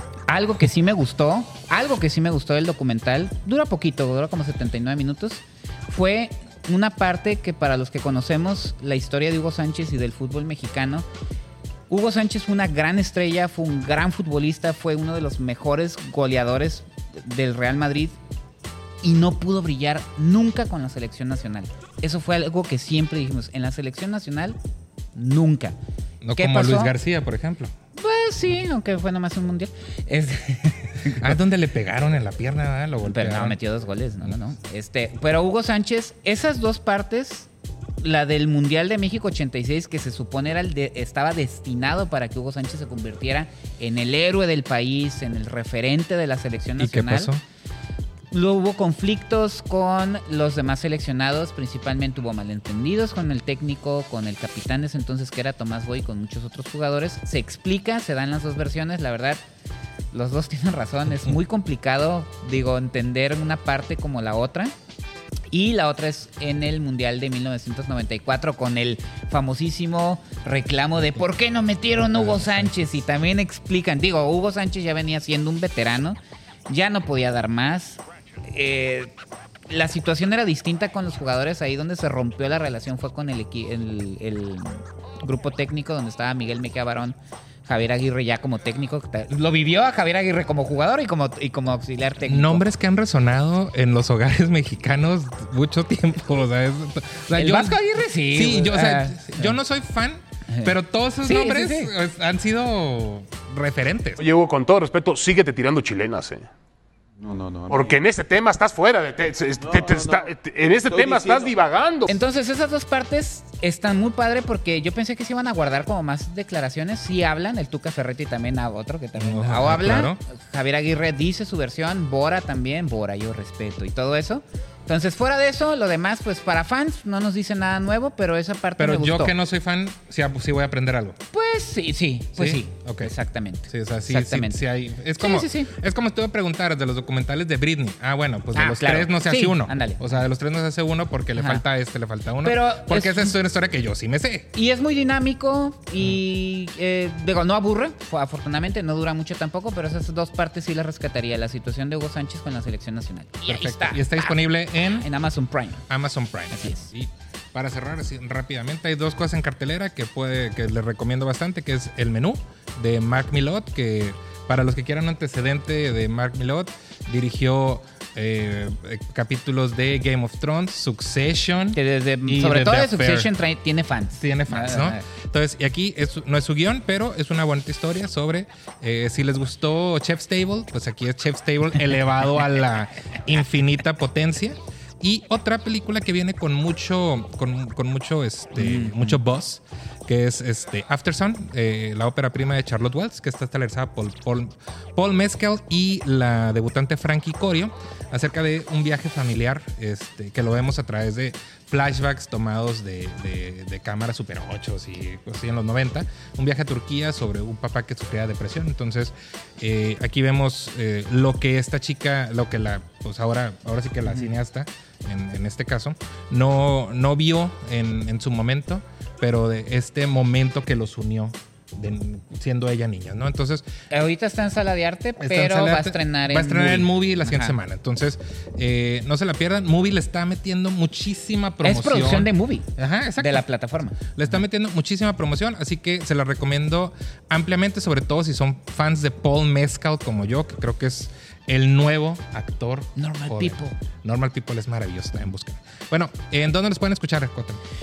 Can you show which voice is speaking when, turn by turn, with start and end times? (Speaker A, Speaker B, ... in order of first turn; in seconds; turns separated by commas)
Speaker A: 0.3-11.1, Speaker A: 11.9-18.2, Speaker A: 19.0-24.6, Speaker A: 25.1-25.8, Speaker B: 26.2-27.7, Speaker A: 26.4-27.0, Speaker A: 28.0-31.4, Speaker B: 31.2-33.6, Speaker A: 33.0-37.5, Speaker A: 38.0-47.3, Speaker B: 46.8-47.4, Speaker A: 48.3-59.4, Speaker A: 60.1-64.7, Speaker A: 65.5-76.2, Speaker B: 72.0-72.9, Speaker A: 76.7-79.1, Speaker A: 79.7-92.7, Speaker B: 92.2-104.2, Speaker A: 97.3-99.6, Speaker A: 100.5-101.9, Speaker C: 104.2-106.5, Speaker C: 107.7-112.2, Speaker A: 112.1-129.3, Speaker B: 119.2-120.2, Speaker B: 128.8-131.2, Speaker A: 131.3-134.7, Speaker B: 132.4-133.1, Speaker B: 133.7-144.5, Speaker A: 135.2-135.7, Speaker A: 138.5-140.2, Speaker A: 141.4-141.6, Speaker A: 142.4-143.4, Speaker A: 144.5-155.9, Speaker B: 153.4-155.1, Speaker B: 155.9-173.3, Speaker A: 156.5-156.9, Speaker A: 171.8-175.0, Speaker B: 174.2-223.7, Speaker A: 188.6-189.2, Speaker A: 214.1-214.3, Speaker A: 223.9-227.6, Speaker B: 225.2-233.5, Speaker A: 231.6-232.7, Speaker A: 233.2-234.0, Speaker B: 234.1-247.6, Speaker A: 243.0-243.8